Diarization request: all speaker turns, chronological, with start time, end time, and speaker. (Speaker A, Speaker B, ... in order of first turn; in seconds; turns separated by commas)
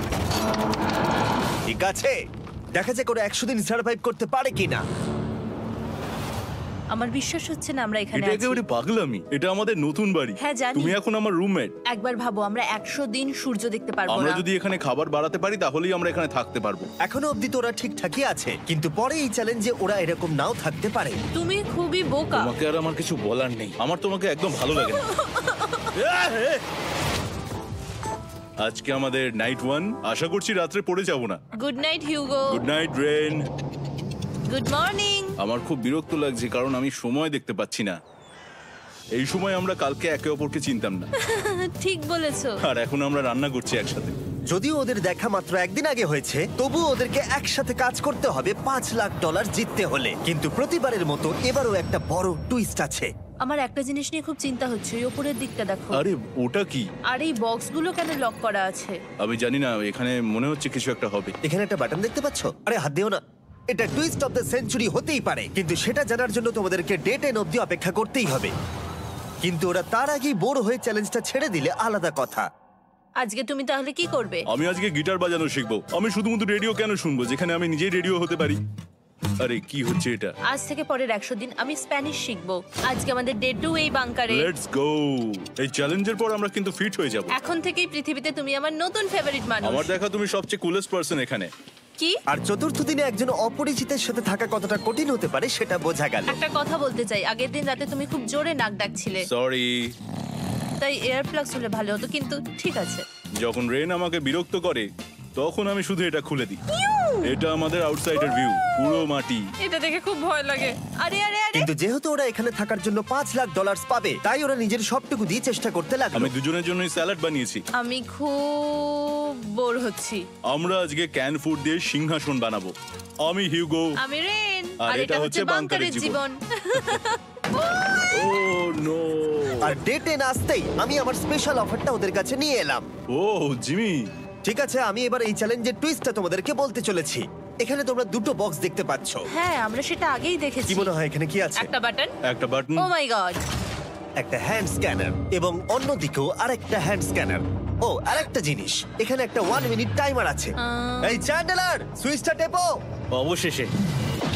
Speaker A: 1.7-2.2, Speaker A: 2.8-4.8, Speaker B: 6.9-8.6, Speaker C: 8.2-11.7, Speaker B: 10.4-11.0, Speaker B: 11.9-14.4, Speaker C: 14.1-16.9, Speaker A: 17.1-21.2, Speaker B: 21.4-22.5, Speaker C: 22.4-25.0, Speaker B: 24.7-25.9, Speaker C: 25.9-26.6, Speaker C: 28.6-31.4, Speaker B: 31.6-32.6, Speaker C: 32.5-33.5, Speaker B: 34.5-35.4, Speaker C: 35.4-38.0, Speaker C: 39.1-41.1, Speaker B: 41.2-42.6, Speaker C: 42.6-44.1, Speaker A: 44.5-53.1, Speaker B: 53.4-56.0, Speaker C: 55.9-56.9, Speaker B: 57.1-59.0, Speaker C: 59.2-61.3, Speaker A: 61.4-68.5, Speaker A: 69.4-72.5, Speaker B: 73.2-74.4, Speaker C: 74.5-78.6, Speaker C: 79.4-80.3, Speaker B: 80.5-84.5, Speaker C: 84.3-87.3, Speaker B: 87.3-89.9, Speaker C: 89.6-91.5, Speaker A: 92.3-96.4, Speaker B: 96.3-99.3, Speaker C: 99.3-99.9, Speaker B: 100.8-103.0, Speaker C: 103.4-106.6, Speaker B: 106.7-107.3, Speaker C: 107.2-109.5, Speaker B: 108.2-108.7, Speaker B: 109.6-111.7, Speaker A: 111.5-116.3, Speaker C: 116.1-117.6, Speaker B: 117.8-120.2, Speaker C: 120.5-123.9, Speaker B: 124.0-128.4, Speaker C: 124.8-126.2, Speaker C: 128.1-129.7, Speaker A: 129.6-132.9, Speaker C: 133.1-134.1, Speaker A: 134.4-139.2, Speaker B: 139.3-140.9, Speaker A: 140.7-141.7, Speaker B: 141.6-142.1, Speaker C: 142.3-142.9, Speaker B: 142.8-143.4, Speaker A: 144.2-152.8, Speaker B: 150.6-151.3, Speaker C: 153.1-153.7